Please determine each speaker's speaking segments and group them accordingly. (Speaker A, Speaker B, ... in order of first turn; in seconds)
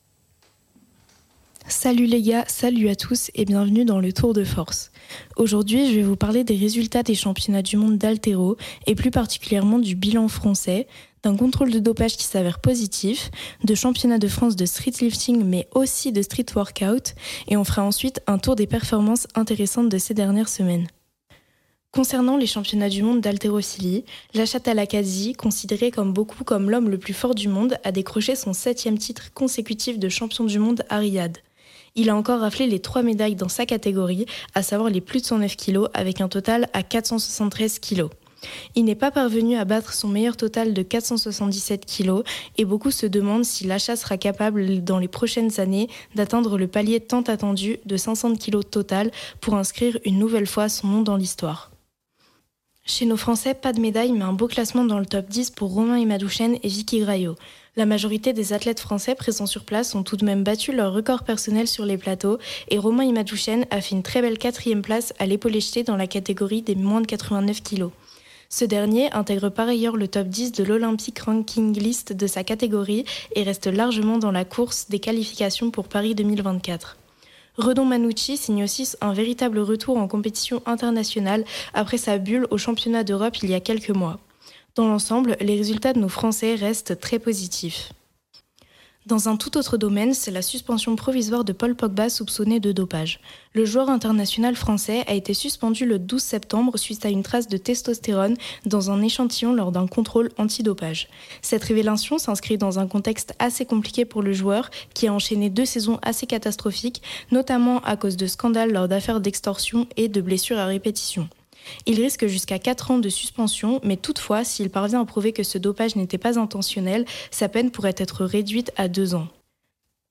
Speaker A: 1.7-20.9, 21.9-31.4, 31.9-38.1, 38.8-51.7, 52.9-67.9, 68.5-77.0, 77.6-84.2, 84.8-87.9, 89.1-111.3, 111.9-119.3